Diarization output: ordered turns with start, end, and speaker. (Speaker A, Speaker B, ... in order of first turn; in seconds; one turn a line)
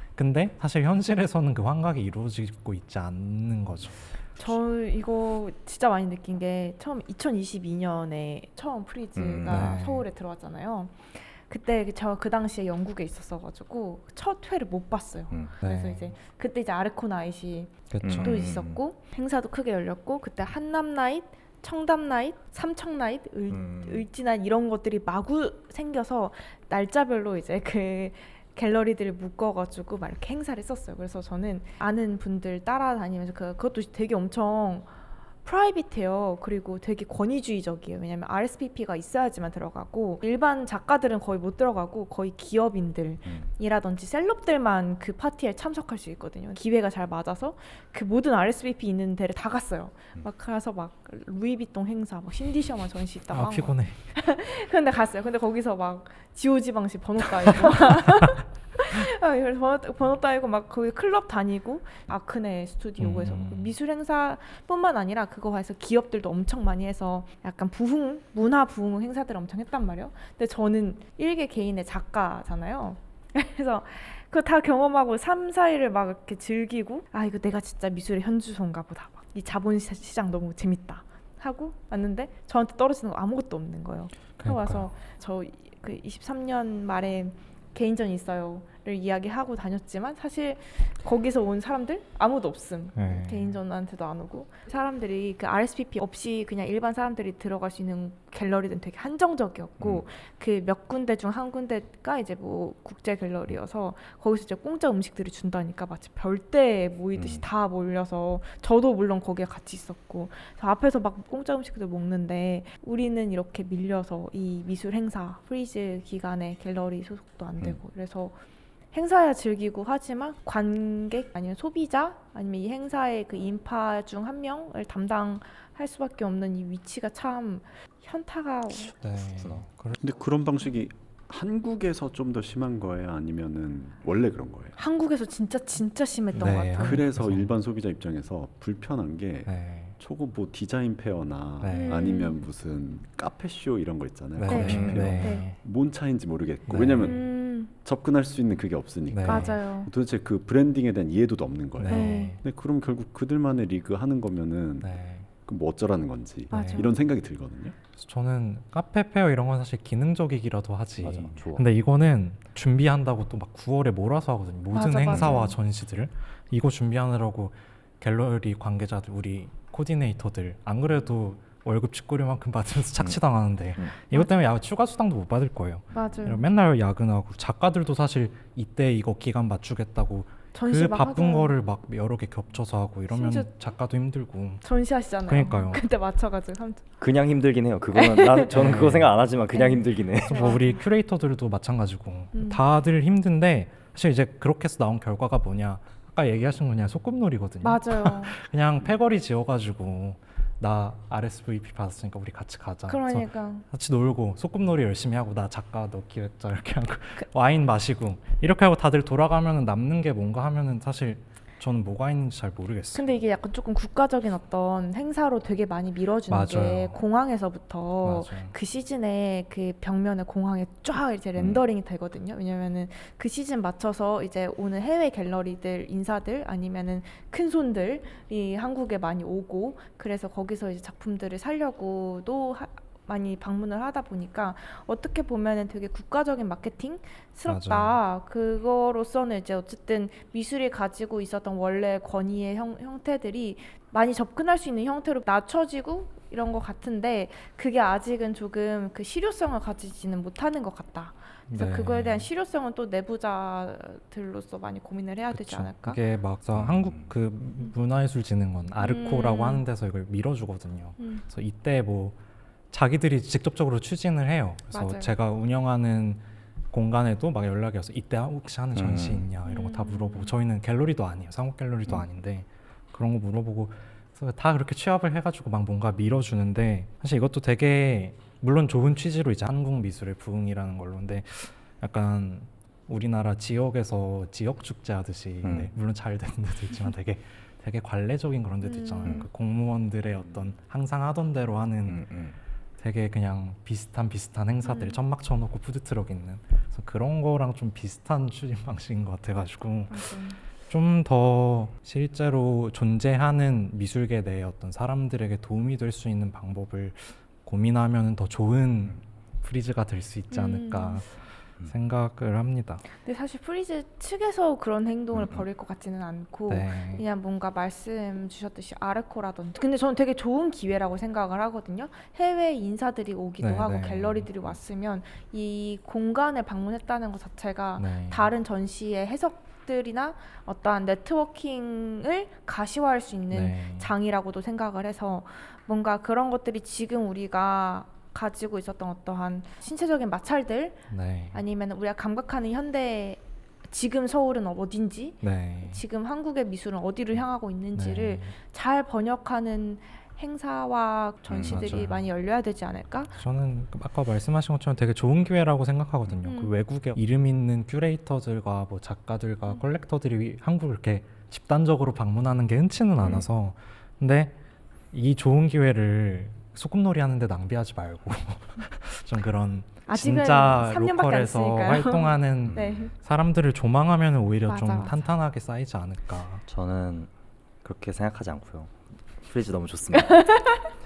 Speaker A: 0.2-4.6
Speaker B: 4.4-34.9
Speaker C: 9.2-9.8
Speaker A: 9.4-10.1
Speaker A: 15.6-16.1
Speaker A: 17.9-18.5
Speaker C: 18.0-18.8
Speaker C: 23.5-24.1
Speaker B: 35.4-118.4
Speaker A: 53.3-54.0
Speaker A: 63.0-63.7
Speaker A: 84.4-84.9
Speaker A: 92.9-93.6
Speaker C: 99.8-100.0
Speaker C: 107.2-107.5
Speaker B: 118.9-128.9
Speaker A: 128.9-130.0
Speaker C: 129.3-129.7
Speaker D: 130.0-134.8
Speaker B: 134.8-137.0
Speaker A: 136.3-137.5
Speaker D: 136.7-154.9
Speaker A: 139.4-140.0
Speaker A: 141.6-142.0
Speaker B: 141.7-142.4
Speaker A: 144.3-145.6
Speaker B: 144.5-145.5
Speaker C: 144.6-145.1
Speaker A: 146.7-147.1
Speaker B: 147.0-147.7
Speaker A: 149.1-149.6
Speaker B: 149.2-149.9
Speaker A: 151.8-152.4
Speaker B: 151.9-152.4
Speaker A: 154.8-155.3
Speaker D: 155.4-157.8
Speaker A: 156.5-156.9
Speaker B: 156.5-156.9
Speaker A: 158.0-184.7
Speaker C: 161.0-161.6
Speaker B: 164.7-165.6
Speaker C: 165.1-165.4
Speaker B: 175.9-176.5
Speaker B: 180.5-181.5
Speaker B: 183.1-183.5
Speaker B: 184.6-186.9
Speaker A: 185.3-185.8
Speaker C: 187.0-190.5
Speaker B: 187.9-188.6
Speaker A: 188.5-189.2
Speaker B: 189.5-190.7
Speaker A: 190.2-213.1
Speaker B: 192.3-192.6
Speaker B: 197.6-198.4
Speaker B: 202.9-203.7
Speaker B: 212.9-256.0
Speaker A: 216.3-217.0
Speaker A: 218.0-218.5
Speaker C: 221.4-221.6
Speaker A: 237.4-238.0
Speaker A: 251.5-252.3
Speaker A: 255.3-262.2
Speaker C: 256.6-257.1
Speaker B: 258.8-259.6
Speaker B: 261.0-261.2
Speaker A: 262.7-292.0
Speaker B: 264.7-265.1
Speaker C: 268.7-269.3
Speaker B: 269.5-270.4
Speaker C: 285.4-285.7
Speaker B: 288.6-289.3
Speaker C: 291.9-292.4
Speaker A: 292.8-300.2
Speaker B: 294.6-295.0
Speaker B: 299.9-300.4
Speaker A: 300.7-311.1
Speaker B: 310.3-311.0
Speaker A: 311.6-312.8
Speaker B: 313.0-340.8
Speaker C: 315.1-315.4
Speaker A: 316.5-317.0
Speaker A: 323.4-324.3
Speaker A: 327.8-328.3
Speaker A: 333.3-333.9
Speaker A: 340.9-341.4
Speaker B: 341.3-353.1
Speaker A: 345.2-345.8
Speaker A: 347.7-348.4
Speaker A: 351.3-352.1
Speaker C: 351.3-351.7
Speaker A: 353.1-364.3
Speaker B: 356.2-356.6
Speaker C: 363.0-363.3
Speaker A: 364.9-376.4
Speaker B: 369.9-372.9
Speaker C: 372.5-372.9
Speaker B: 374.5-375.0
Speaker C: 376.5-377.1
Speaker C: 377.6-380.2
Speaker B: 379.9-380.7